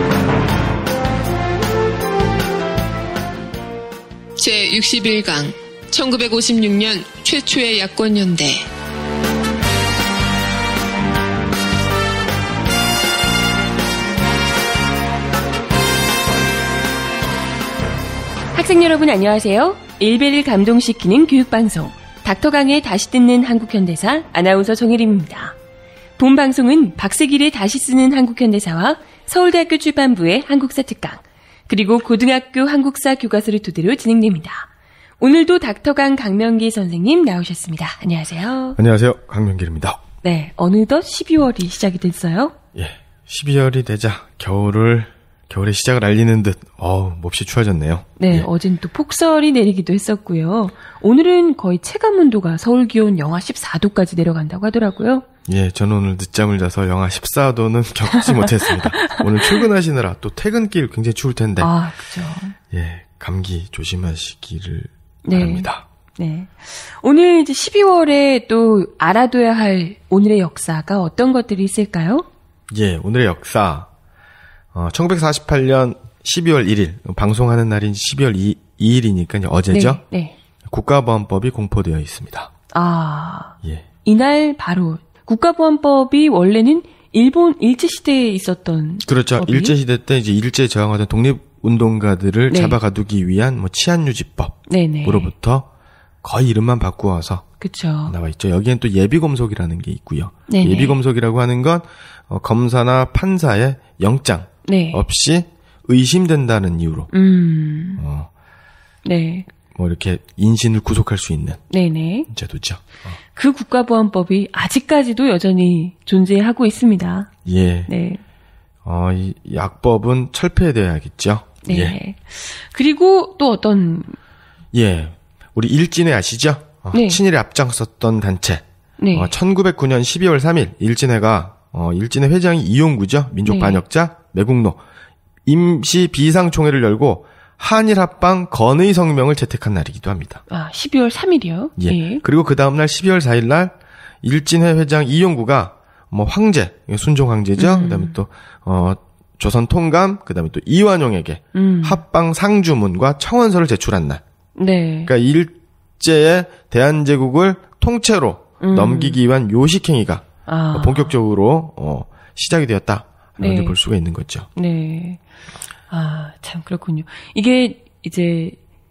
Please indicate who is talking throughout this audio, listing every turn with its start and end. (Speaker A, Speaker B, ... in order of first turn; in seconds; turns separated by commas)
Speaker A: 4.4-8.7, Speaker B: 18.5-25.6, Speaker B: 26.2-34.7, Speaker B: 35.2-38.8, Speaker C: 38.8-40.0, Speaker B: 40.2-42.5, Speaker C: 42.8-48.5, Speaker B: 48.2-55.3, Speaker C: 55.5-61.7, Speaker B: 58.1-59.6, Speaker B: 61.6-62.6, Speaker C: 62.7-65.8, Speaker B: 65.3-72.3, Speaker C: 72.7-73.9, Speaker C: 74.7-80.0, Speaker B: 79.7-80.3, Speaker C: 80.7-82.5, Speaker B: 82.7-89.8, Speaker C: 89.0-95.7, Speaker B: 92.5-92.8, Speaker B: 94.7-95.3, Speaker C: 96.2-97.4, Speaker B: 97.6-98.1, Speaker C: 98.1-107.1, Speaker B: 100.5-101.0, Speaker B: 104.7-105.0, Speaker B: 107.1-108.0, Speaker C: 108.0-108.3, Speaker B: 109.0-109.5, Speaker C: 109.8-111.6, Speaker B: 111.7-112.3, Speaker C: 112.3-113.1, Speaker B: 113.3-117.3, Speaker C: 117.5-117.9, Speaker B: 117.9-118.2, Speaker C: 118.8-122.0, Speaker B: 121.7-124.2, Speaker C: 124.7-128.6, Speaker B: 126.9-127.2, Speaker B: 129.0-129.3, Speaker C: 129.1-134.8, Speaker B: 133.5-133.8, Speaker C: 135.5-140.4, Speaker B: 140.5-142.2, Speaker C: 141.8-154.2, Speaker B: 147.6-148.2, Speaker B: 151.5-152.0, Speaker B: 154.6-155.1, Speaker C: 155.1-164.5, Speaker B: 158.6-159.2, Speaker B: 160.5-161.1, Speaker B: 163.4-163.8, Speaker B: 164.6-165.2, Speaker B: 165.9-168.6